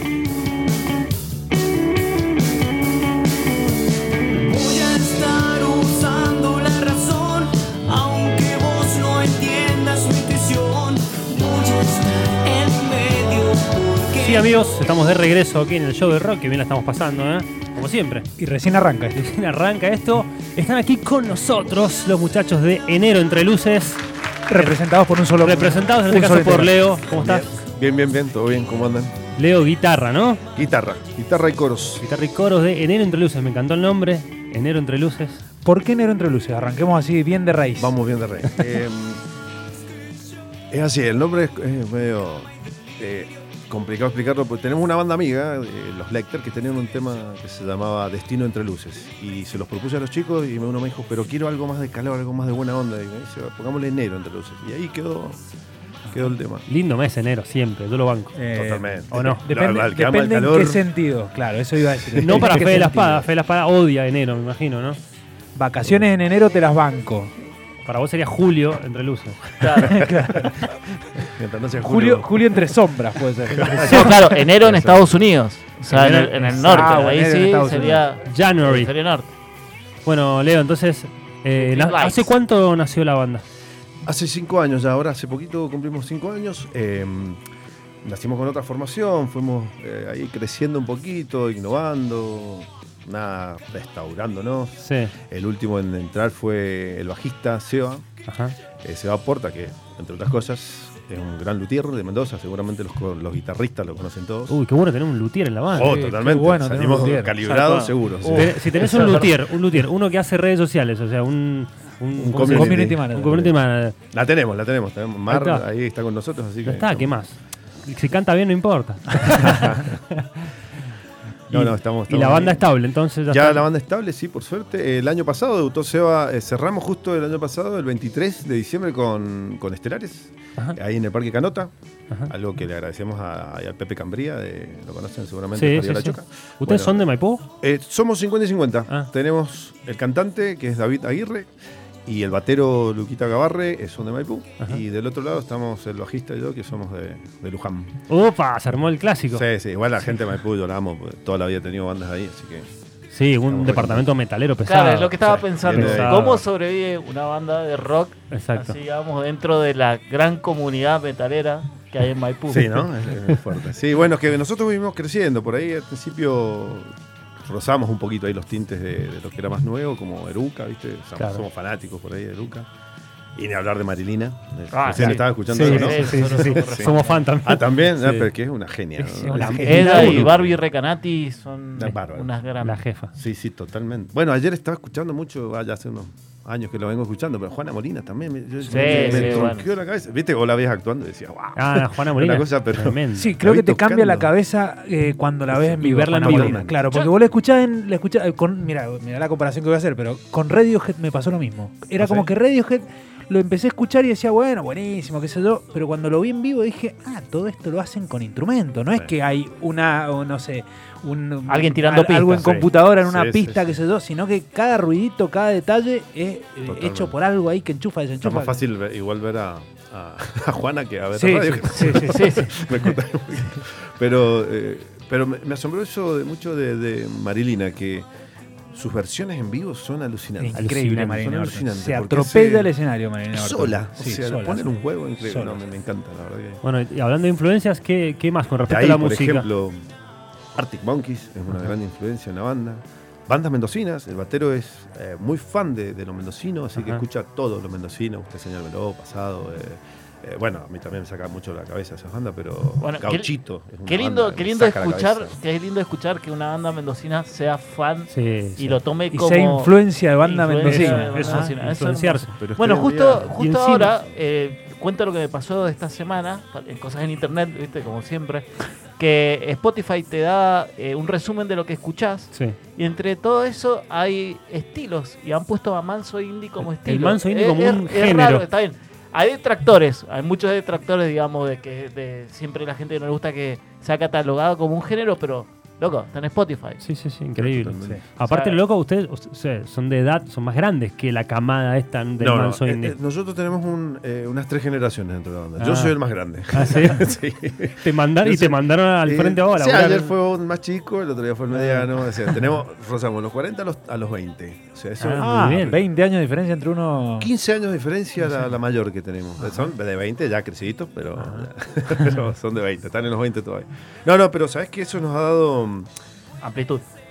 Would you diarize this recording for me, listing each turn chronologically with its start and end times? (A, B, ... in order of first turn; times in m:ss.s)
0:04.5-0:14.4 A
0:14.1-0:18.3 B
0:18.4-0:19.2 C
0:19.2-0:24.0 B
0:24.5-0:26.7 C
0:25.4-0:27.5 B
0:27.1-0:29.2 D
0:29.4-0:30.4 B
0:30.6-0:32.0 D
0:32.0-0:35.4 B
0:35.6-0:38.0 C
0:37.8-0:39.2 D
0:40.7-0:55.4 D
0:56.1-0:56.6 D
0:56.7-0:58.4 B
0:58.4-1:03.3 C
0:58.5-1:00.9 D
0:59.1-0:59.4 B
1:02.0-1:02.5 D
1:02.2-1:05.0 B
1:05.5-1:07.3 C
1:07.8-1:09.5 B
1:09.6-1:10.0 E
1:09.8-1:10.7 C
1:10.0-1:10.4 D
1:11.2-1:12.7 D
1:11.8-1:14.3 C
1:13.5-1:15.1 D
1:13.8-1:14.2 B
1:13.9-1:19.3 E
1:15.9-1:17.0 B
1:16.4-1:18.0 C
1:18.2-1:18.9 B
1:20.0-1:23.4 B
1:21.6-1:22.3 E
1:24.0-1:27.4 D
1:28.0-1:38.1 D
1:34.8-1:35.1 B
1:38.2-1:38.6 B
1:38.8-1:44.6 D
1:44.5-1:45.9 B
1:45.7-1:49.2 D
1:45.8-1:47.3 C
1:47.4-1:49.3 E
1:48.2-1:54.0 B
1:52.2-1:53.1 D
1:52.3-1:53.6 C
1:54.1-1:57.1 D
1:55.3-1:55.6 B
1:56.6-1:59.9 B
1:59.4-2:00.0 D
2:01.5-2:02.7 D
2:01.5-2:03.6 B
2:03.3-2:11.7 D
2:12.3-2:17.1 D
2:15.5-2:17.4 B
2:17.6-2:21.5 D
2:22.1-2:28.0 D
2:28.1-2:29.5 B
2:29.3-2:32.7 D
2:33.1-2:36.4 B
2:33.5-2:34.1 D
2:34.7-2:42.8 E
2:35.5-2:36.3 D
2:38.3-2:38.8 B
2:42.5-2:46.9 D
2:47.4-2:52.7 D
2:51.2-2:51.4 B
2:53.4-3:00.6 D
2:54.7-2:57.2 E
2:55.0-2:58.3 B
2:59.2-3:00.3 C
2:59.2-3:00.0 B
2:59.4-3:02.8 E
3:01.8-3:02.3 D
3:02.6-3:03.1 B
3:03.2-3:14.3 D
3:08.7-3:09.7 E
3:08.7-3:09.5 C
3:09.0-3:09.4 B
3:11.6-3:13.3 B
3:13.2-3:38.6 C
3:15.5-3:16.8 D
3:15.8-3:16.8 B
3:22.0-3:22.3 D
3:31.5-3:32.5 E
3:32.4-3:33.8 D
3:36.7-3:37.2 D
3:38.2-3:48.1 D
3:41.2-3:42.8 C
3:42.0-3:42.5 E
3:48.7-3:52.7 D
3:50.4-3:55.6 C
3:53.3-3:56.6 D
3:56.6-3:59.5 B
3:58.7-3:59.9 D
4:00.6-4:15.4 D
4:06.8-4:07.0 B
4:12.8-4:13.3 E
4:13.8-4:46.8 E
4:18.1-4:18.8 B
4:19.1-4:21.5 C
4:20.6-4:22.4 B
4:22.4-4:23.4 D
4:23.4-4:23.9 B
4:36.6-4:38.5 B
4:46.8-4:53.0 B
4:47.4-4:48.0 D
4:48.2-4:48.6 E
4:52.2-5:05.8 D
4:55.6-4:56.0 B
4:56.5-4:57.1 B
4:57.8-5:00.1 B
5:01.5-5:01.9 B
5:05.0-5:05.8 B
5:05.2-5:07.3 C
5:07.2-5:15.9 D
5:11.2-5:11.5 B
5:16.4-5:16.9 E